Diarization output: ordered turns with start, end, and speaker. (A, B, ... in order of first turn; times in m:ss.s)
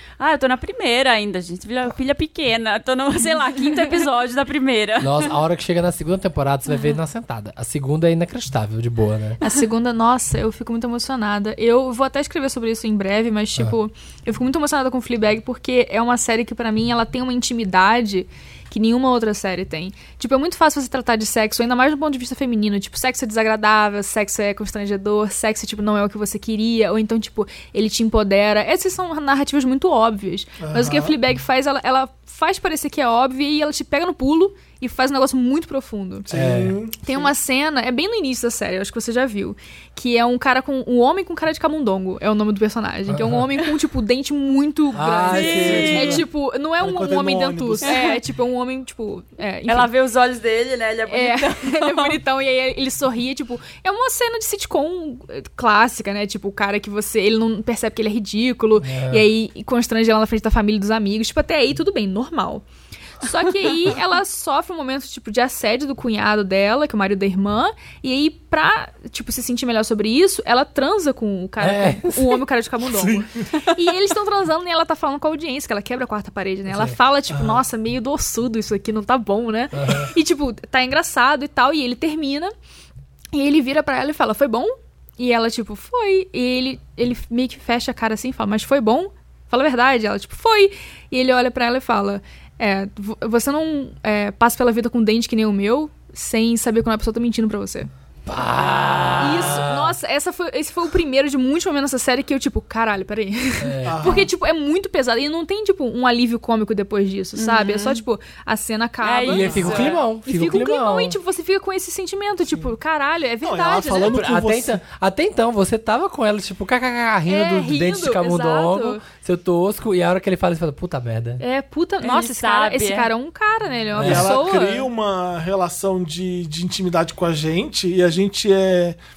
0:00.2-0:05.3 A
0:05.0-0:09.4 B
0:09.4-0:36.3 C
0:30.6-0:31.1 D
0:36.3-0:37.3 D
0:36.3-0:36.8 B
0:37.0-0:49.9 C
0:43.1-0:43.5 B
0:44.9-0:46.2 B
0:45.3-0:46.2 A
0:45.5-0:46.2 D
0:46.8-0:47.9 D
0:47.8-0:48.2 A
0:49.7-0:52.2 A
0:51.1-1:02.6 C
0:58.8-0:59.3 B
1:03.2-1:22.5 C
1:11.6-1:12.4 B
1:12.9-1:13.4 D
1:16.7-1:17.0 B
1:17.3-1:17.6 D
1:19.7-1:20.1 B
1:23.3-1:37.9 C
1:38.2-1:39.9 B
1:38.6-1:39.6 A
1:39.2-1:54.2 C
1:43.6-1:44.0 B
1:43.8-1:44.3 D
1:47.4-1:48.0 A
1:49.0-1:50.0 A
1:49.3-1:51.2 B
1:53.4-1:54.8 D
1:54.0-2:01.4 B
1:57.3-1:59.0 C
2:01.4-2:04.9 C
2:02.0-2:03.1 A
2:03.9-2:04.4 B
2:04.0-2:09.0 D